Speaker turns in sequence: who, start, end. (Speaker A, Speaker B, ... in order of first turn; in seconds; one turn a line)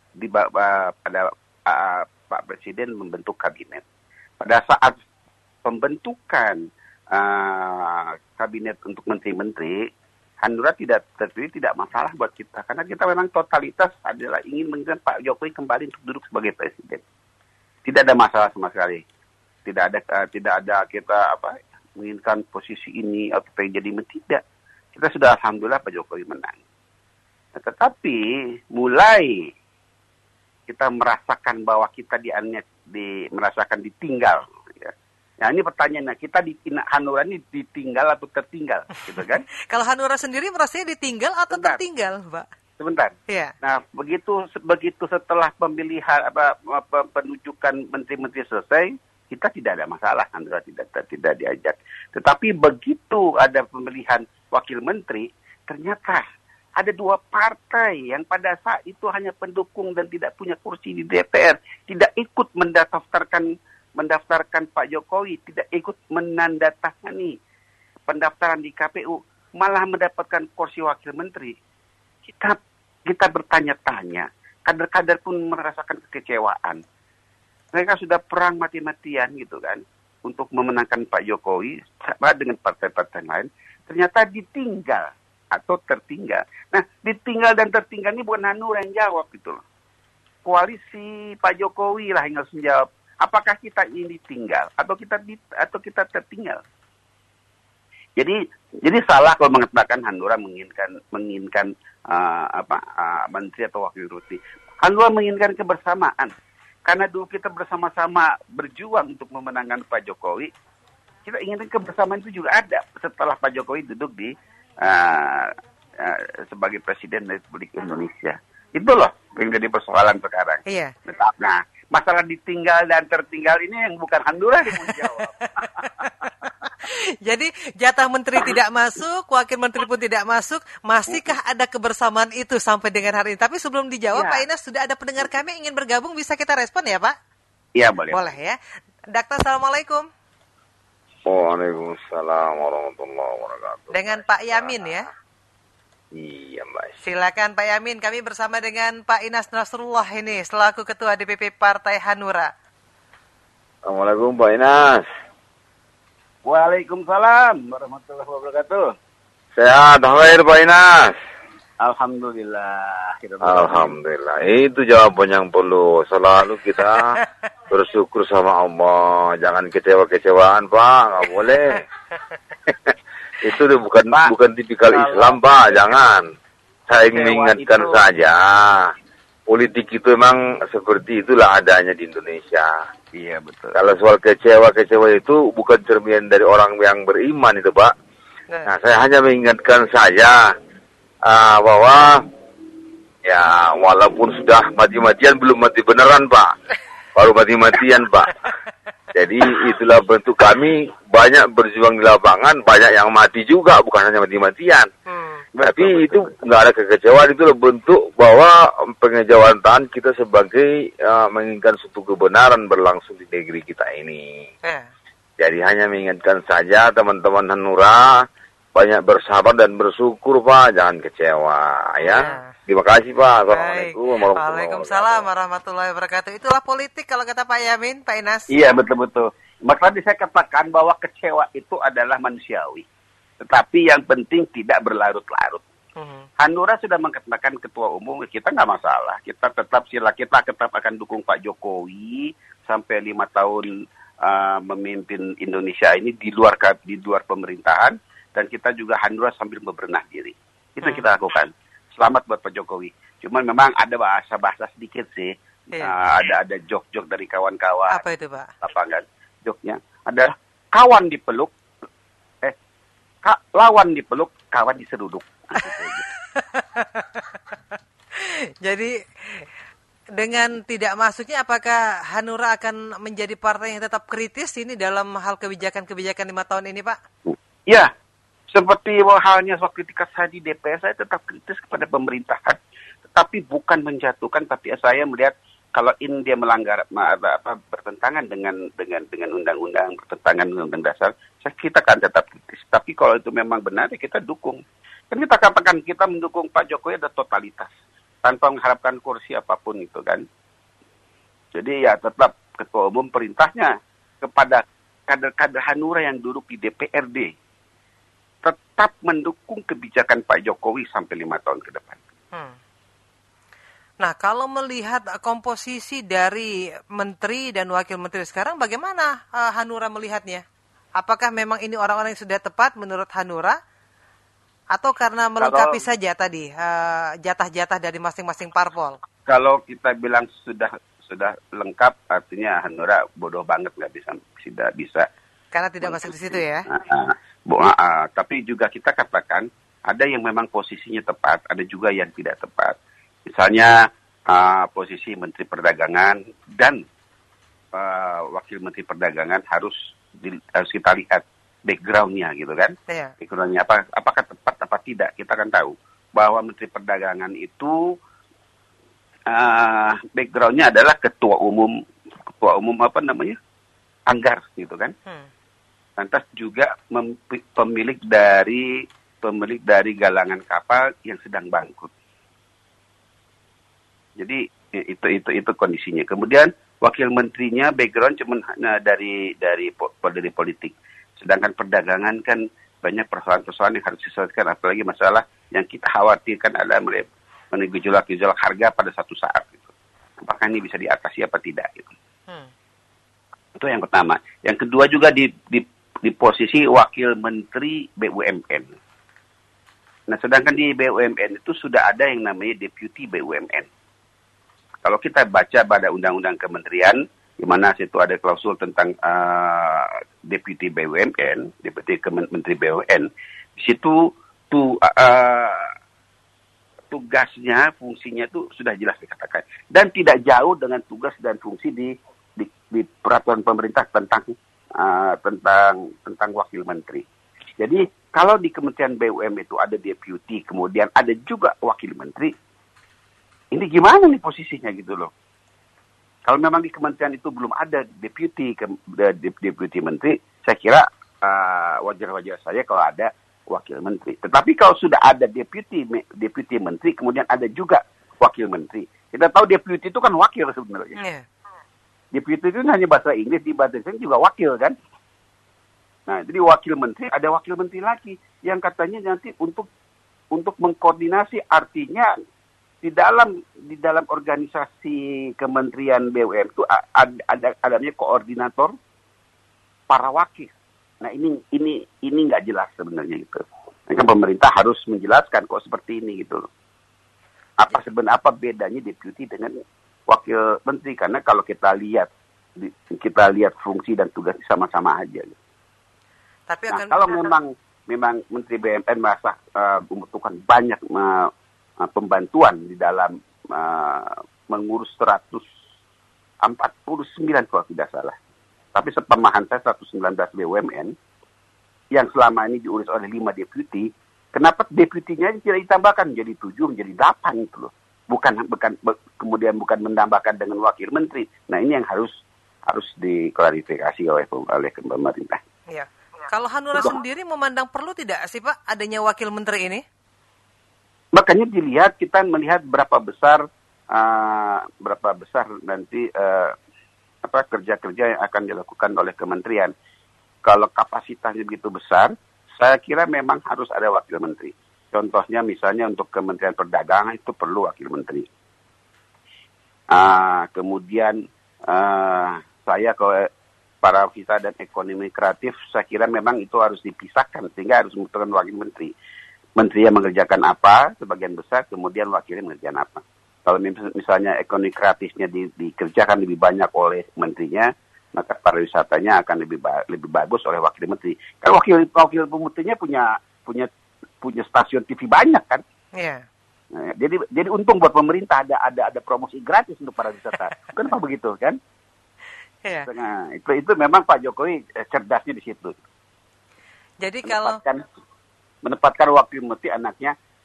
Speaker A: 0.2-3.8
Speaker A: 4.4-5.0
Speaker A: 5.6-9.9
Speaker A: 10.4-17.0
Speaker A: 17.8-19.0
Speaker A: 19.6-24.4
Speaker A: 24.9-26.6
Speaker A: 27.6-29.5
Speaker A: 30.7-39.4
Speaker B: 39.2-42.5
Speaker A: 41.5-41.8
Speaker A: 42.8-56.2
Speaker B: 43.3-43.5
Speaker A: 56.8-63.5
Speaker A: 64.0-67.3
Speaker A: 68.1-71.5
Speaker A: 72.2-76.8
Speaker A: 77.7-89.6
Speaker A: 90.4-96.6
Speaker A: 98.2-106.3
Speaker A: 106.8-110.5
Speaker A: 111.2-125.8
Speaker B: 120.7-120.9
Speaker B: 125.6-137.1
Speaker A: 134.1-134.4
Speaker A: 137.8-138.3
Speaker B: 138.1-138.6
Speaker B: 139.1-140.0
Speaker C: 141.3-144.9
Speaker B: 143.9-145.1
Speaker C: 146.1-146.9
Speaker B: 147.0-152.5
Speaker C: 153.8-155.0
Speaker A: 156.4-158.9
Speaker C: 159.6-161.1
Speaker A: 161.8-164.0
Speaker C: 163.4-171.8
Speaker C: 172.7-176.3
Speaker A: 174.1-174.3
Speaker A: 174.9-175.9
Speaker C: 176.9-178.9
Speaker A: 177.1-178.0
Speaker C: 179.5-182.7
Speaker A: 183.1-183.8
Speaker C: 183.7-187.9
Speaker C: 188.7-190.4
Speaker C: 191.2-192.2
Speaker C: 193.2-196.5
Speaker C: 197.2-198.3
Speaker C: 199.1-204.9
Speaker B: 205.1-205.4
Speaker A: 205.5-206.4
Speaker C: 205.6-214.4
Speaker B: 214.6-214.9
Speaker C: 215.4-218.2
Speaker C: 218.7-225.2
Speaker B: 222.0-222.5
Speaker B: 223.5-228.5
Speaker A: 228.5-232.8
Speaker A: 233.4-235.6
Speaker B: 236.0-236.3
Speaker A: 236.4-243.7
Speaker A: 244.2-258.0
Speaker B: 257.9-258.5
Speaker A: 258.6-261.5
Speaker A: 263.2-266.0
Speaker B: 266.4-267.4
Speaker B: 268.2-269.4
Speaker B: 270.2-277.0
Speaker A: 277.3-277.9
Speaker A: 278.5-294.6
Speaker A: 295.1-297.7
Speaker A: 298.2-300.2
Speaker A: 301.5-307.3
Speaker A: 308.4-312.0
Speaker B: 314.0-320.4
Speaker B: 321.0-323.6
Speaker B: 324.7-329.0
Speaker A: 325.4-325.8
Speaker A: 329.2-335.1
Speaker B: 335.5-336.6
Speaker A: 335.8-342.7
Speaker A: 343.3-343.7
Speaker A: 344.3-346.8
Speaker A: 347.7-357.9
Speaker B: 352.9-353.1
Speaker A: 359.3-361.7
Speaker A: 362.3-363.4
Speaker A: 364.1-364.9
Speaker A: 366.0-368.7
Speaker A: 369.2-371.9
Speaker A: 374.2-389.7
Speaker A: 390.2-391.9
Speaker A: 393.6-398.7
Speaker A: 400.1-403.7
Speaker A: 404.8-415.7
Speaker A: 416.9-427.0
Speaker A: 427.6-432.3
Speaker A: 433.5-435.1
Speaker A: 436.2-450.9
Speaker B: 451.0-451.2
Speaker A: 452.1-454.7
Speaker A: 456.1-459.6
Speaker A: 460.3-462.1
Speaker A: 462.8-468.7
Speaker A: 469.9-470.5
Speaker A: 471.0-476.4
Speaker A: 477.6-485.4
Speaker B: 486.5-487.3
Speaker A: 486.7-495.4
Speaker A: 496.4-498.1
Speaker A: 498.7-500.9
Speaker A: 501.9-512.1
Speaker A: 512.6-515.4
Speaker B: 515.7-519.8
Speaker A: 516.7-517.0
Speaker A: 521.1-526.5
Speaker A: 527.2-529.7
Speaker A: 530.4-538.3
Speaker A: 539.9-543.3
Speaker A: 543.8-548.9
Speaker A: 549.5-563.7
Speaker A: 564.2-565.6
Speaker B: 566.0-566.2
Speaker A: 566.7-571.6
Speaker A: 572.9-575.8
Speaker B: 577.0-577.6
Speaker A: 577.2-577.8
Speaker A: 578.6-580.1